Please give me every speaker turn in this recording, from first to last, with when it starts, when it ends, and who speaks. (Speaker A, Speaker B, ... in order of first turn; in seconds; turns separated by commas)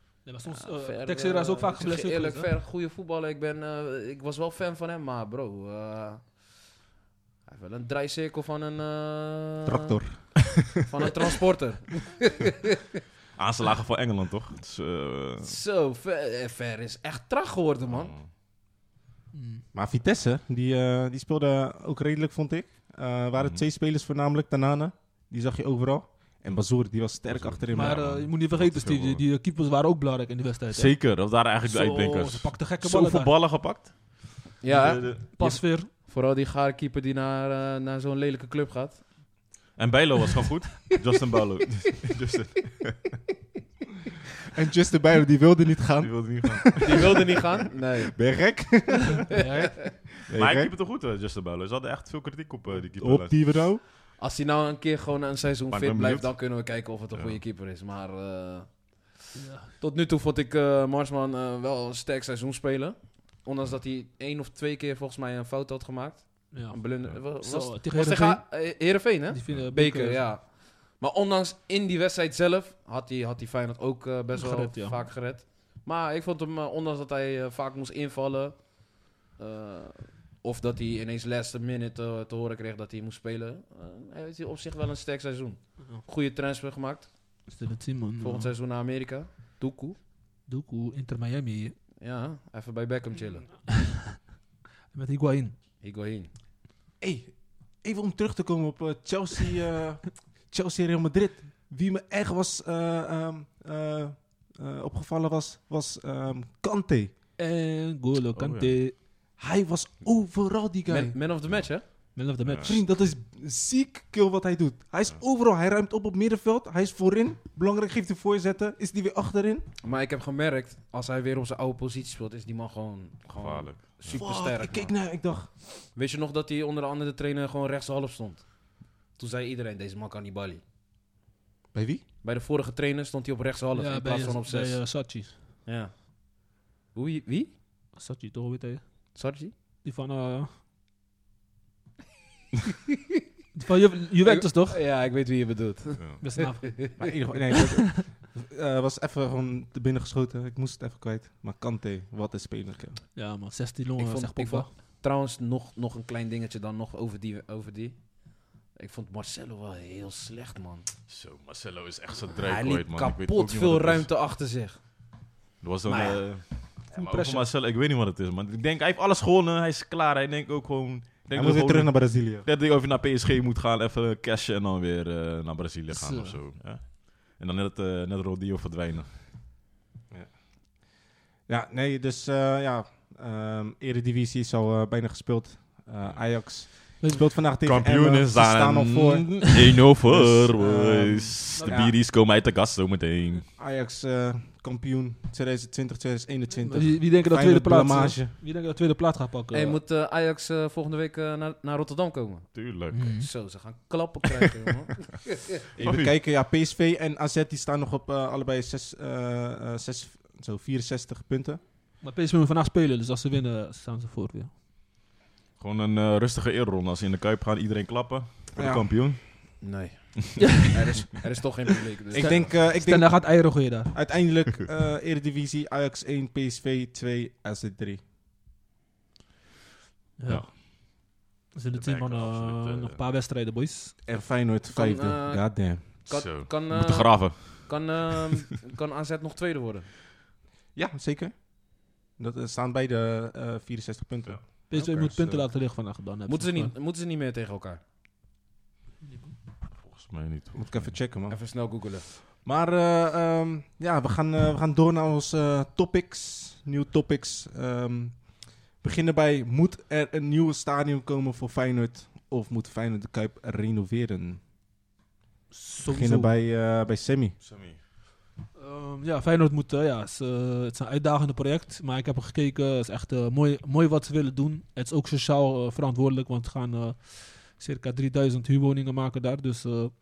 Speaker A: 0.2-2.5, Speaker B: 0.5-6.3, Speaker B: 7.5-9.9, Speaker C: 9.7-10.7, Speaker B: 10.8-12.7, Speaker D: 13.4-15.5, Speaker B: 15.4-18.1, Speaker D: 17.9-18.2, Speaker A: 19.3-19.6, Speaker C: 19.7-28.1, Speaker D: 23.4-23.6, Speaker D: 27.2-29.2, Speaker A: 27.7-33.3, Speaker D: 30.7-35.2, Speaker B: 34.6-39.0, Speaker A: 35.3-35.9, Speaker D: 39.8-43.1, Speaker C: 44.5-47.2, Speaker D: 46.0-47.2, Speaker B: 46.8-48.1, Speaker C: 48.1-49.4, Speaker A: 49.3-49.8, Speaker B: 49.4-49.7, Speaker C: 50.3-50.7, Speaker D: 50.3-53.6, Speaker C: 53.0-53.8, Speaker B: 54.2-58.8, Speaker D: 55.7-57.4, Speaker A: 59.3-59.7, Speaker B: 59.8-78.7, Speaker A: 66.5-68.6, Speaker A: 69.3-70.3, Speaker A: 74.3-75.0, Speaker B: 79.3-87.1, Speaker A: 87.5-88.5, Speaker B: 88.2-90.0, Speaker A: 90.5-91.8, Speaker B: 92.0-93.5, Speaker A: 93.7-94.2, Speaker A: 94.9-95.5, Speaker B: 95.8-96.3, Speaker C: 97.0-107.1, Speaker A: 107.4-108.9, Speaker D: 108.3-108.8, Speaker C: 109.4-111.2, Speaker B: 110.9-111.9, Speaker A: 112.1-112.8, Speaker D: 112.4-112.7, Speaker C: 112.6-119.7, Speaker B: 119.8-124.9, Speaker D: 123.3-124.2, Speaker C: 124.1-125.5, Speaker B: 125.9-130.6, Speaker C: 131.7-132.0, Speaker B: 132.2-134.9, Speaker A: 133.7-135.3, Speaker B: 135.6-136.1, Speaker B: 136.9-137.5, Speaker A: 137.9-138.8, Speaker B: 139.1-139.5, Speaker A: 139.8-140.5, Speaker A: 143.5-144.8, Speaker B: 144.2-147.0, Speaker A: 146.2-147.0, Speaker C: 147.0-153.0, Speaker A: 153.1-154.7, Speaker B: 154.0-158.1, Speaker B: 158.7-160.9, Speaker D: 161.1-164.1, Speaker B: 162.4-164.8, Speaker D: 165.6-179.1, Speaker B: 165.8-166.3, Speaker A: 166.9-167.4, Speaker C: 171.3-172.4, Speaker A: 175.9-176.4, Speaker C: 181.5-192.0, Speaker A: 187.0-187.2, Speaker D: 187.6-193.4, Speaker A: 191.5-191.8, Speaker C: 193.6-198.3, Speaker A: 196.7-199.8, Speaker B: 199.5-205.4, Speaker D: 202.5-203.2, Speaker A: 202.9-203.3, Speaker D: 205.8-206.1, Speaker C: 205.8-211.6, Speaker A: 212.0-214.5, Speaker D: 215.6-219.6, Speaker C: 218.6-218.9, Speaker B: 219.6-222.5, Speaker C: 222.1-228.0, Speaker A: 222.2-223.9, Speaker A: 230.2-230.7, Speaker D: 230.3-230.5, Speaker A: 231.5-233.9, Speaker D: 231.7-233.0, Speaker C: 234.0-235.9, Speaker B: 234.7-239.9, Speaker D: 236.1-238.0, Speaker C: 240.7-241.5, Speaker C: 242.1-245.1, Speaker D: 244.2-245.4, Speaker A: 244.7-246.7, Speaker B: 246.3-247.8, Speaker A: 249.1-249.3, Speaker D: 249.8-251.0, Speaker C: 250.5-251.4, Speaker B: 251.3-252.1, Speaker C: 252.2-264.4, Speaker A: 265.5-266.3, Speaker C: 265.8-267.4, Speaker D: 267.4-267.8, Speaker A: 268.6-279.9